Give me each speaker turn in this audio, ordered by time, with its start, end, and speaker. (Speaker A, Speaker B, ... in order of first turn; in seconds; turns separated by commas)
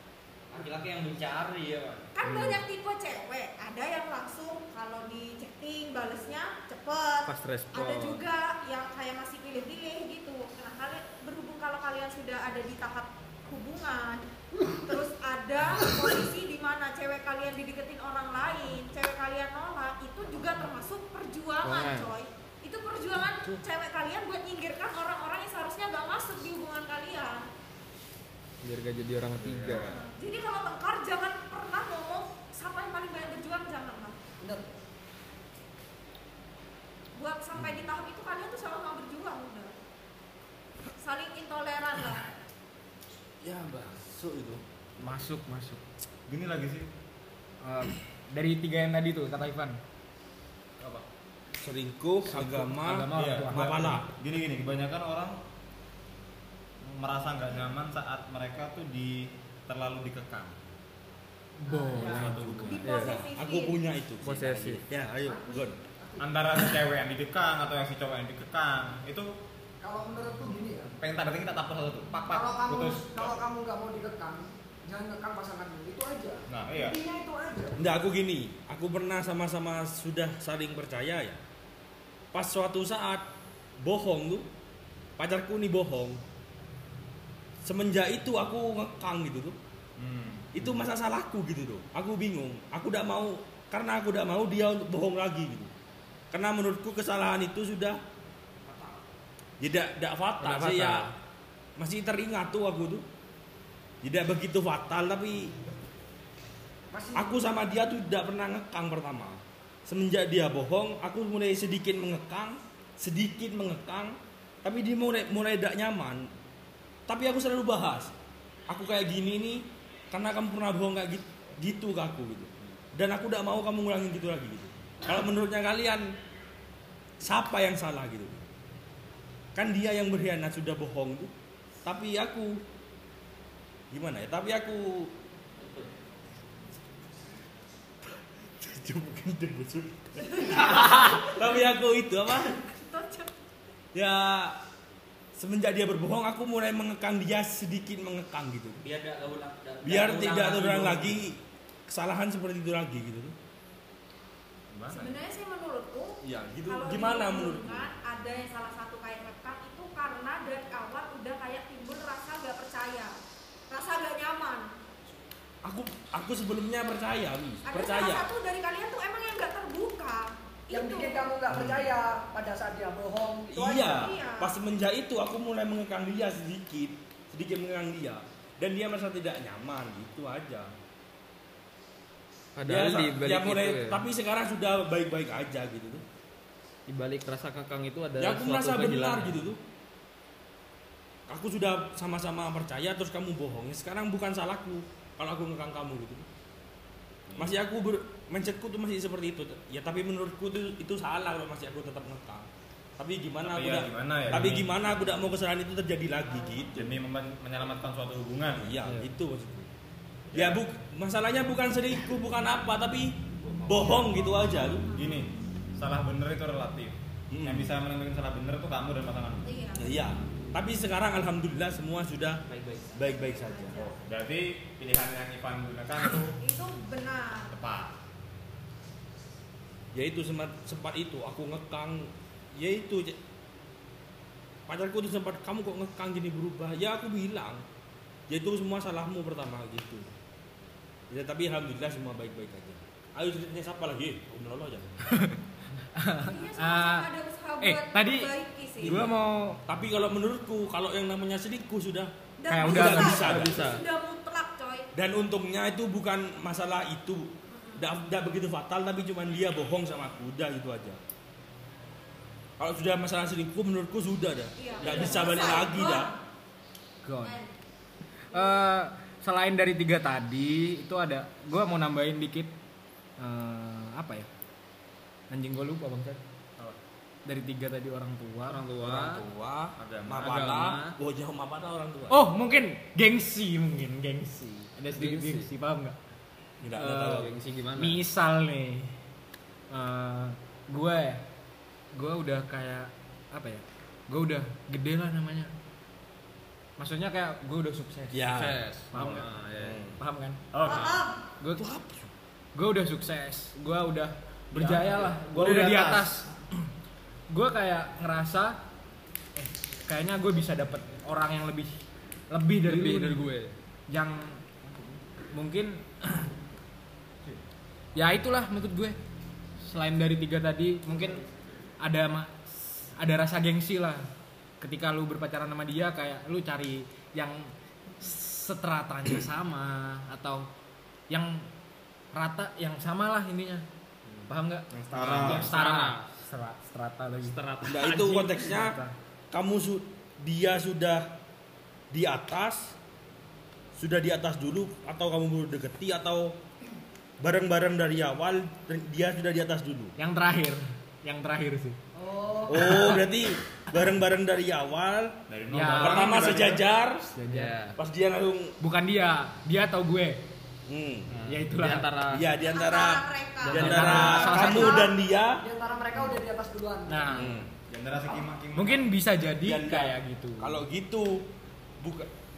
Speaker A: 0.5-2.1, Speaker B: 2.1-27.5, Speaker C: 7.2-8.2, Speaker C: 21.6-22.1, Speaker C: 28.6-29.9, Speaker D: 29.4-29.9, Speaker B: 29.7-34.2, Speaker E: 34.4-34.7, Speaker B: 37.1-39.7, Speaker D: 37.5-37.8, Speaker B: 41.0-42.3, Speaker D: 43.4-44.6, Speaker F: 45.0-45.8, Speaker G: 46.3-46.9, Speaker F: 47.6-49.8, Speaker D: 51.6-54.1, Speaker F: 52.3-54.0, Speaker G: 53.1-55.4, Speaker G: 56.8-60.6, Speaker F: 61.6-62.8, Speaker E: 61.7-62.3, Speaker D: 62.0-65.8, Speaker B: 62.6-63.8, Speaker C: 62.8-63.2, Speaker C: 64.2-64.8, Speaker E: 65.2-66.3, Speaker G: 66.2-69.3, Speaker E: 69.8-70.9, Speaker G: 71.0-73.4, Speaker E: 72.3-77.8, Speaker G: 76.5-77.0, Speaker D: 77.8-81.4, Speaker D: 82.3-83.2, Speaker D: 83.8-84.5, Speaker D: 85.2-86.2, Speaker D: 87.6-89.5, Speaker G: 90.0-90.5, Speaker D: 90.5-95.7, Speaker D: 96.3-98.0, Speaker A: 98.7-98.9, Speaker D: 99.6-101.1, Speaker C: 100.4-101.1, Speaker D: 101.8-103.0, Speaker D: 104.0-105.5, Speaker E: 106.9-107.4, Speaker D: 107.1-116.3, Speaker D: 117.1-118.1, Speaker D: 118.7-126.1, Speaker D: 127.2-128.4, Speaker D: 129.5-131.3, Speaker D: 131.8-132.6, Speaker D: 133.9-135.1, Speaker A: 135.6-135.9, Speaker D: 138.0-142.6, Speaker B: 140.2-141.5, Speaker B: 142.4-143.3, Speaker D: 143.9-144.6, Speaker D: 145.3-148.8, Speaker A: 148.8-151.2, Speaker D: 149.8-153.3, Speaker G: 154.7-155.2, Speaker B: 154.9-163.1, Speaker D: 156.2-157.9, Speaker B: 163.7-164.7, Speaker D: 165.6-168.3, Speaker B: 167.7-171.3, Speaker E: 170.7-174.1, Speaker D: 171.5-171.9, Speaker D: 173.5-180.7, Speaker B: 173.9-174.5, Speaker C: 182.6-184.0, Speaker D: 182.6-186.0, Speaker C: 186.9-189.5, Speaker D: 188.2-189.6, Speaker D: 191.3-196.2, Speaker G: 197.3-197.6, Speaker D: 197.4-202.5, Speaker D: 203.0-206.8, Speaker G: 203.4-204.7, Speaker G: 206.7-208.8, Speaker D: 208.6-209.7, Speaker G: 210.3-210.6, Speaker D: 210.3-214.9, Speaker G: 213.7-214.0, Speaker B: 214.9-215.2, Speaker G: 214.9-219.6, Speaker D: 217.3-217.7, Speaker B: 219.4-220.1, Speaker D: 219.7-222.4, Speaker A: 222.5-223.1, Speaker D: 222.9-223.8, Speaker B: 223.0-224.0, Speaker G: 223.8-226.3, Speaker B: 226.4-227.5, Speaker G: 227.5-227.9, Speaker D: 229.9-233.2, Speaker D: 234.7-237.6, Speaker D: 238.3-240.1, Speaker D: 241.1-244.9, Speaker F: 245.1-245.4, Speaker F: 245.9-247.1, Speaker B: 246.2-249.0, Speaker F: 247.6-248.3, Speaker F: 248.8-249.6, Speaker D: 248.8-249.1, Speaker D: 249.7-253.6, Speaker B: 252.4-254.9, Speaker F: 252.5-253.3, Speaker C: 252.9-253.8, Speaker D: 254.9-261.0, Speaker B: 257.5-257.9, Speaker D: 262.6-266.1, Speaker B: 264.6-266.2, Speaker F: 267.0-267.4, Speaker B: 267.2-267.5, Speaker F: 268.3-272.5, Speaker F: 273.2-274.3, Speaker F: 275.3-276.2, Speaker F: 277.2-278.6, Speaker C: 278.5-279.3, Speaker D: 278.8-282.2, Speaker G: 279.8-280.4, Speaker C: 280.2-281.0, Speaker F: 282.1-286.0, Speaker C: 284.9-285.5, Speaker D: 286.6-287.3, Speaker C: 286.8-288.0, Speaker F: 287.8-288.9, Speaker F: 289.7-291.2, Speaker F: 291.9-295.5, Speaker F: 296.8-298.2, Speaker D: 298.1-298.6, Speaker C: 298.2-299.9, Speaker F: 298.9-299.3, Speaker D: 299.6-300.0, Speaker F: 300.0-300.4, Speaker G: 300.5-301.0, Speaker B: 300.6-301.2, Speaker F: 301.4-301.7, Speaker D: 301.6-302.1, Speaker F: 302.5-306.7, Speaker D: 304.6-304.9, Speaker G: 305.3-306.1, Speaker F: 307.3-308.6, Speaker F: 309.4-313.2, Speaker C: 312.6-313.6, Speaker F: 313.9-314.4, Speaker F: 315.3-316.2, Speaker F: 317.9-319.0, Speaker F: 319.6-321.2, Speaker F: 321.8-324.1, Speaker F: 324.6-330.5, Speaker F: 331.1-331.5, Speaker F: 332.1-333.6, Speaker G: 334.1-335.5, Speaker F: 334.3-338.9, Speaker C: 335.0-336.1, Speaker C: 337.2-338.2, Speaker D: 337.7-338.8, Speaker D: 339.3-341.1, Speaker D: 341.9-342.8, Speaker D: 343.8-346.4, Speaker D: 347.2-349.9, Speaker F: 350.0-351.8, Speaker E: 351.9-353.0, Speaker D: 352.5-355.1, Speaker G: 355.3-356.6, Speaker F: 355.5-356.4, Speaker D: 355.7-357.1, Speaker F: 357.1-357.5, Speaker C: 357.2-357.8, Speaker D: 357.8-358.5, Speaker F: 358.6-360.2, Speaker D: 360.7-361.1, Speaker C: 361.1-362.3, Speaker F: 361.3-361.9, Speaker D: 362.1-365.4, Speaker B: 362.4-364.9, Speaker C: 363.4-364.5, Speaker F: 363.5-364.9, Speaker E: 365.4-367.3, Speaker F: 366.9-367.4, Speaker D: 367.1-367.5, Speaker G: 367.6-368.9, Speaker F: 368.5-370.6, Speaker D: 369.4-371.2, Speaker D: 371.8-372.1